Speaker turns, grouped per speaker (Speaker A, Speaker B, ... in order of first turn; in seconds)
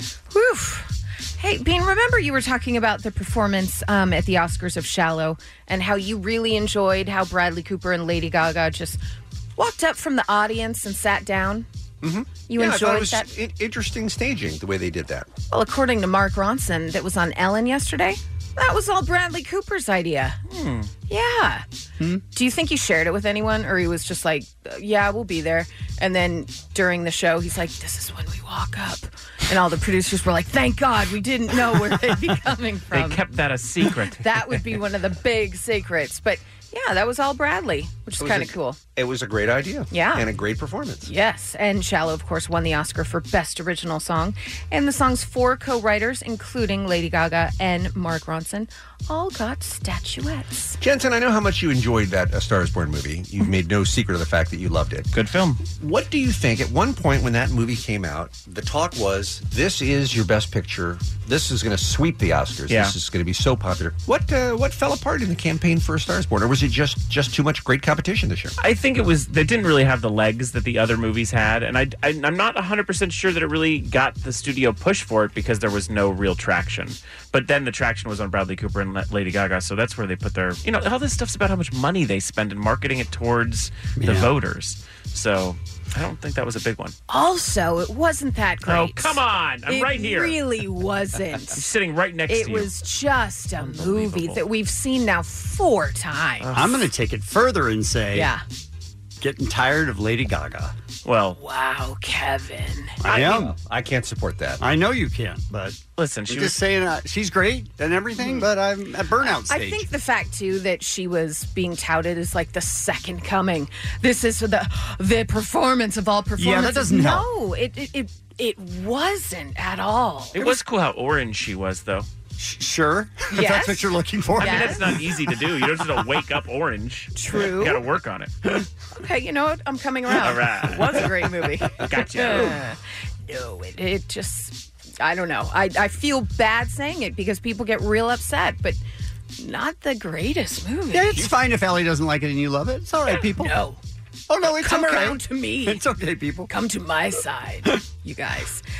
Speaker A: 0.3-9.0, 9.6-11.7, 12.5-13.3, 15.5-20.4, 21.1-21.6, 22.3-33.2, 34.1-38.8, 39.9-40.3, 41.0-50.8, 87.1-91.7, 92.3-96.5, 98.1-98.4, 101.4-103.0, 108.2-108.5, 109.2-120.4, 123.3-124.9, 127.2-127.8, 128.9-138.8, 139.4-141.3, 143.1-143.8, 144.5-145.8, 146.5-148.6
Speaker B: 12.0-15.3, 38.2-41.1, 50.8-55.1, 55.8-68.5, 103.0-104.6
Speaker C: 20.5-20.9, 32.9-34.6, 55.1-55.6, 62.7-63.0, 68.6-87.0, 88.7-90.4, 91.5-92.7, 93.6-94.4, 96.4-96.9, 101.0-101.4, 106.0-106.6, 120.3-122.1, 124.4-128.3, 130.2-131.0, 131.8-132.6
Speaker D: 84.0-84.3, 96.5-98.3, 99.2-100.8, 103.0-103.5, 104.6-109.9, 116.4-117.3, 122.4-125.1, 140.9-143.6, 144.3-146.5